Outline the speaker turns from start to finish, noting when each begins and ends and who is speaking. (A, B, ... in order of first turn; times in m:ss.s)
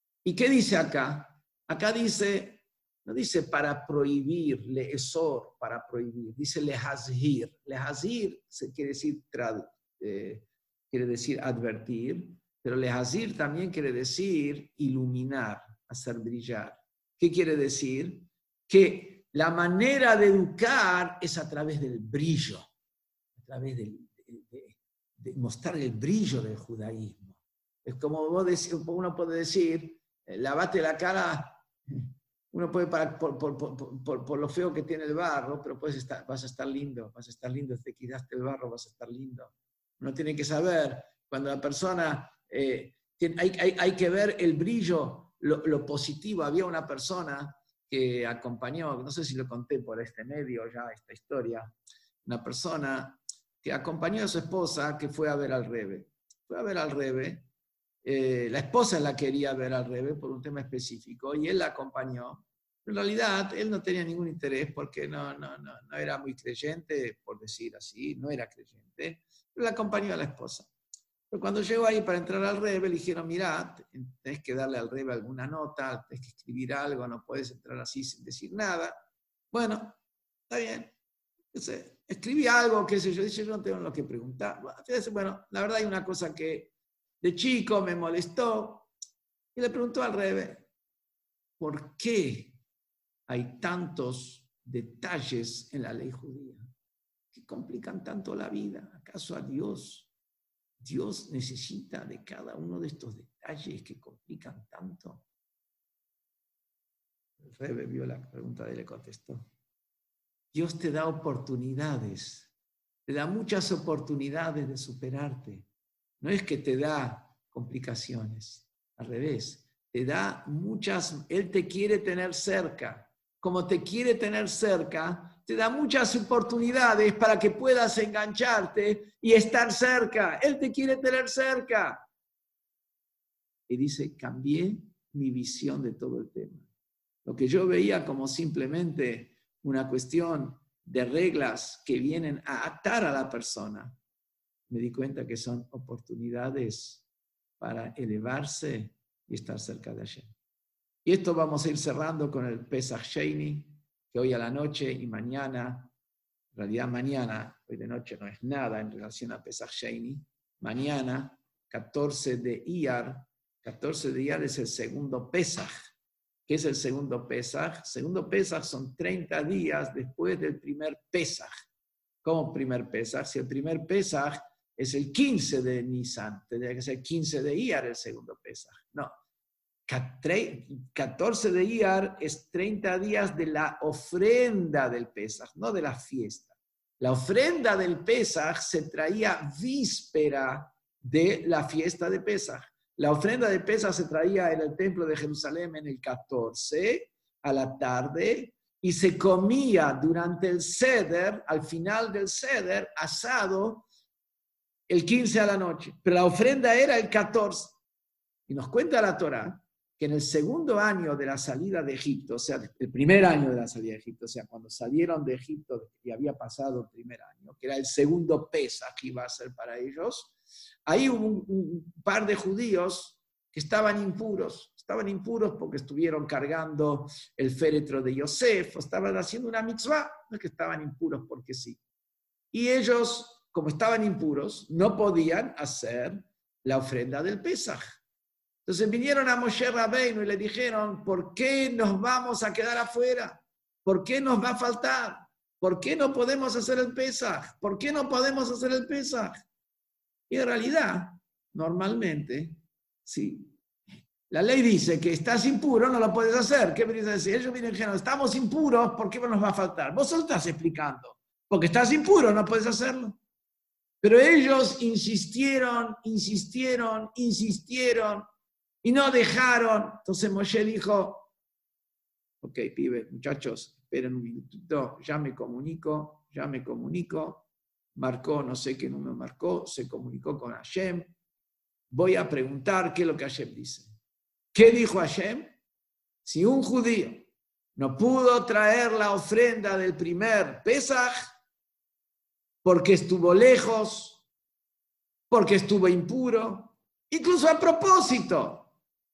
0:00.2-0:22.7 A
0:23.4-0:51.7 A
0:52.2-0:57.5 A
0:58.0-1:10.7 A
1:11.3-1:19.0 A
1:19.5-1:20.0 A
1:20.5-1:20.9 A
1:21.5-1:28.9 A
1:29.5-1:30.7 A
1:31.6-1:32.6 A
1:33.3-1:36.7 A
1:37.3-1:40.1 A
1:40.8-1:45.2 A
1:47.4-1:49.5 A
1:50.5-1:52.5 A
1:53.0-1:55.7 A
1:56.2-2:12.0 A
2:13.7-2:16.6 A
2:17.2-2:24.0 A
2:24.7-2:27.0 A
2:27.6-2:30.3 A
2:31.0-2:35.9 A
2:36.5-2:45.7 A
2:46.5-2:51.5 A
2:52.2-2:59.1 A
2:59.9-3:23.8 A
3:24.9-3:27.8 A
3:28.5-3:40.3 A
3:40.8-3:51.8 A
3:52.5-3:58.0 A
3:58.6-4:09.4 A
4:10.3-4:13.5 A
4:14.3-4:23.2 A
4:24.0-4:28.2 A
4:28.8-4:31.3 A
4:32.4-4:41.1 A
4:41.9-4:43.9 A
4:44.5-4:45.6 A
4:46.2-4:51.1 A
4:52.6-4:54.2 A
4:55.3-4:58.7 A